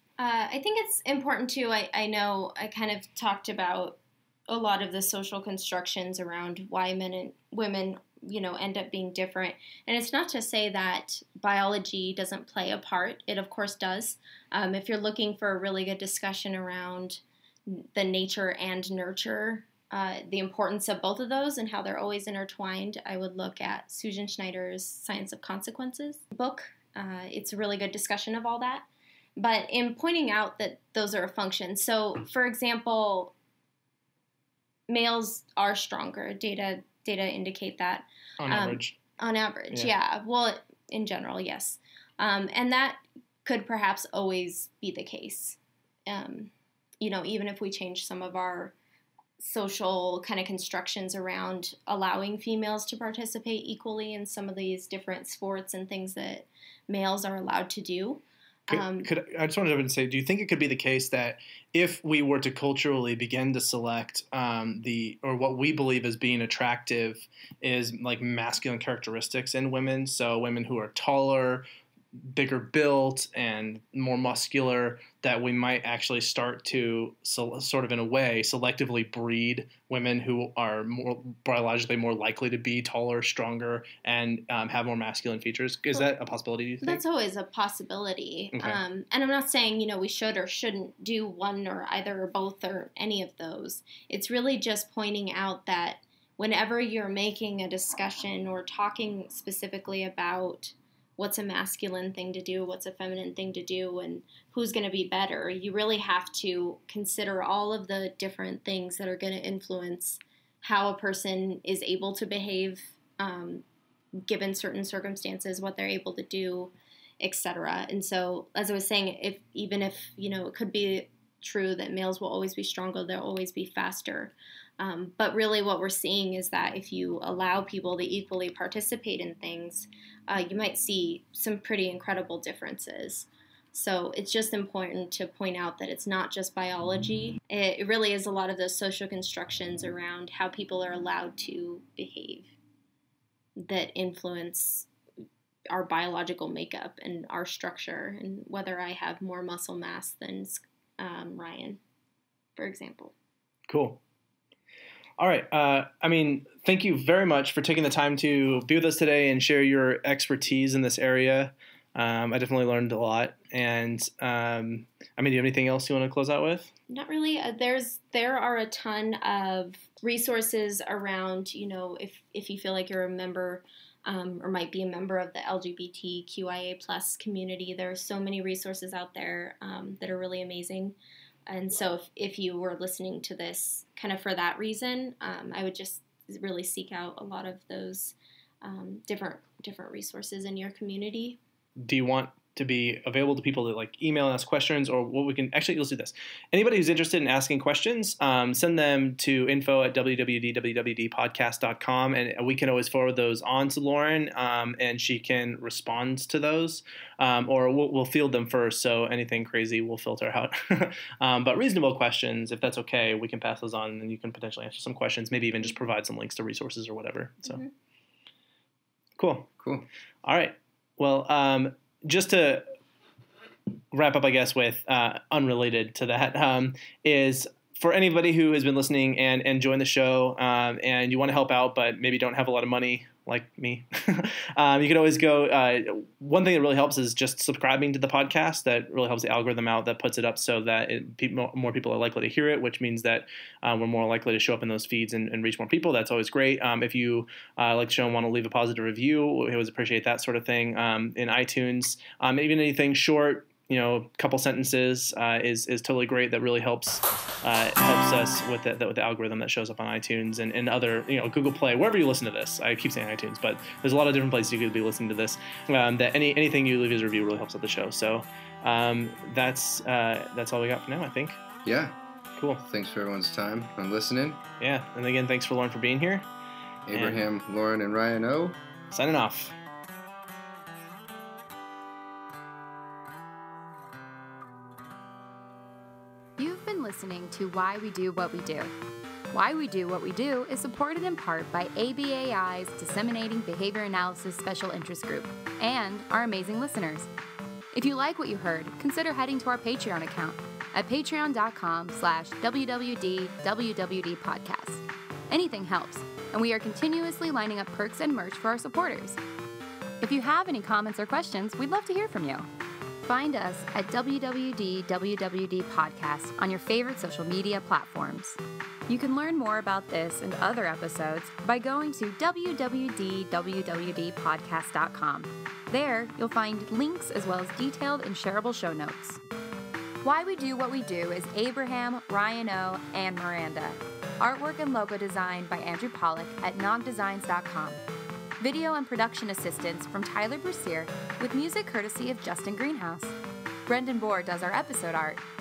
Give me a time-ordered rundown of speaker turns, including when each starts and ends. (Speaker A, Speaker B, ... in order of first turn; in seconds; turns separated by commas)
Speaker A: 0.2-28.9, Speaker A: 29.4-33.3, Speaker A: 34.9-48.7, Speaker B: 38.4-39.0, Speaker A: 49.4-59.1, Speaker B: 58.7-87.0, Speaker A: 86.8-113.6, Speaker B: 88.5-88.8, Speaker A: 114.2-142.5, Speaker A: 143.6-144.9, Speaker A: 145.7-151.8, Speaker A: 152.6-153.1, Speaker B: 153.7-154.0, Speaker B: 155.2-166.7, Speaker A: 166.9-180.9, Speaker A: 181.5-191.4, Speaker B: 191.8-217.6, Speaker B: 219.2-219.5, Speaker C: 219.6-219.8, Speaker B: 220.2-222.7, Speaker B: 223.9-271.4, Speaker C: 271.6-271.9, Speaker B: 272.4-272.6, Speaker C: 272.6-274.4, Speaker B: 274.6-276.3, Speaker C: 276.9-278.6, Speaker B: 276.9-277.2, Speaker B: 278.9-279.5, Speaker D: 286.4-288.7, Speaker D: 289.3-297.1, Speaker D: 297.7-309.2, Speaker D: 310.0-312.5, Speaker D: 313.1-329.2, Speaker D: 330.0-337.8, Speaker D: 338.4-343.1, Speaker D: 343.6-345.2